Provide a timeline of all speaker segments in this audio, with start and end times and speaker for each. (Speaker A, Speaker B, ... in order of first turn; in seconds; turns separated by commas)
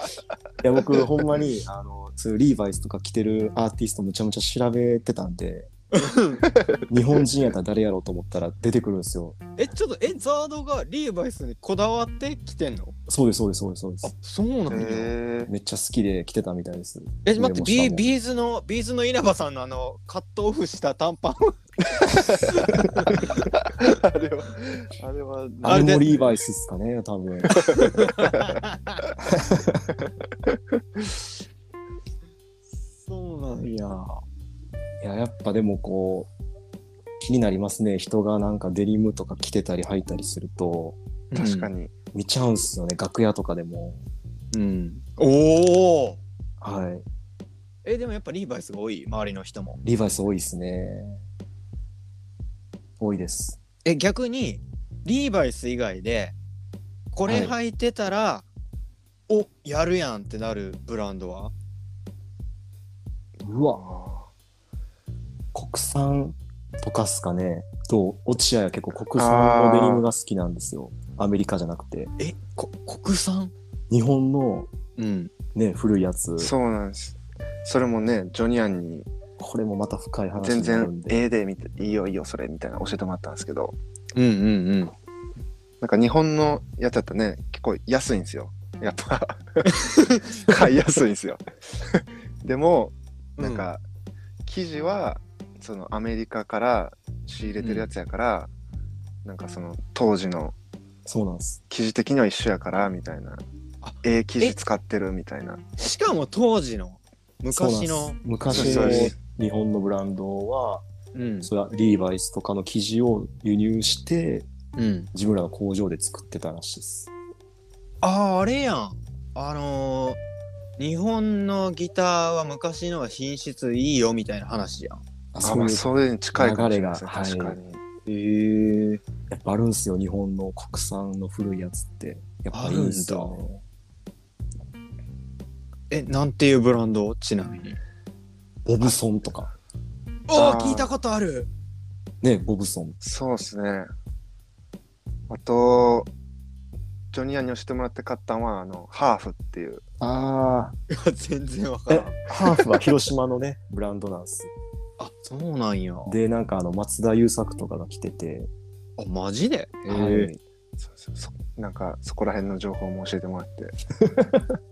Speaker A: 0.6-5.7, Speaker B: 5.9-6.4, Speaker C: 6.5-6.8, Speaker A: 6.9-9.4, Speaker B: 9.6-12.9, Speaker A: 13.1-14.1, Speaker B: 14.0-15.1, Speaker C: 14.7-15.5, Speaker A: 14.7-18.1, Speaker B: 17.2-23.5, Speaker C: 23.6-26.3, Speaker A: 25.6-27.7, Speaker B: 25.7-26.1, Speaker B: 27.5-29.0, Speaker C: 27.6-28.0, Speaker A: 29.2-29.9, Speaker B: 33.1-34.0, Speaker A: 35.0-36.3, Speaker A: 37.2-41.0, Speaker B: 41.3-41.7, Speaker C: 41.4-41.9, Speaker A: 42.1-44.0, Speaker B: 44.5-46.2, Speaker A: 46.6-47.1, Speaker B: 47.9-49.8, Speaker A: 49.8-51.2, Speaker A: 53.0-53.6, Speaker B: 53.9-56.4, Speaker B: 57.1-58.5, Speaker A: 57.3-57.5, Speaker B: 59.3-61.5, Speaker A: 63.4-63.8, Speaker C: 63.6-64.3, Speaker A: 65.5-72.1, Speaker C: 69.1-70.1, Speaker B: 72.2-73.5, Speaker A: 73.9-74.7, Speaker B: 75.0-75.3, Speaker A: 75.5-76.5, Speaker C: 76.4-79.1, Speaker A: 79.4-81.2, Speaker C: 80.4-83.8, Speaker B: 84.1-84.9, Speaker C: 85.8-89.8, Speaker B: 89.7-90.4, Speaker C: 90.4-93.8, Speaker B: 93.4-93.7, Speaker C: 94.5-98.5, Speaker B: 97.6-97.9, Speaker C: 99.2-100.6, Speaker A: 101.1-101.6, Speaker C: 101.7-103.4, Speaker B: 103.8-104.6, Speaker C: 104.0-105.6, Speaker B: 105.8-109.1, Speaker A: 107.5-110.8, Speaker C: 108.5-109.1, Speaker B: 111.1-111.5, Speaker A: 111.4-114.5, Speaker B: 114.8-115.1, Speaker A: 115.1-117.1, Speaker B: 118.0-120.2, Speaker B: 120.8-125.0, Speaker A: 125.3-127.6, Speaker C: 125.4-127.8, Speaker B: 128.1-129.0, Speaker A: 129.3-133.6, Speaker B: 132.5-133.4, Speaker B: 135.9-137.8, Speaker A: 138.6-139.5, Speaker B: 140.3-141.5, Speaker C: 140.3-140.9, Speaker A: 142.2-143.0, Speaker C: 143.0-143.9, Speaker C: 145.3-146.1, Speaker C: 147.1-149.8, Speaker A: 150.0-150.8, Speaker B: 150.9-152.3, Speaker A: 151.9-154.5, Speaker B: 155.0-156.2, Speaker A: 156.1-158.5, Speaker B: 159.0-160.3, Speaker A: 159.9-160.4, Speaker C: 160.8-163.8, Speaker A: 164.0-164.4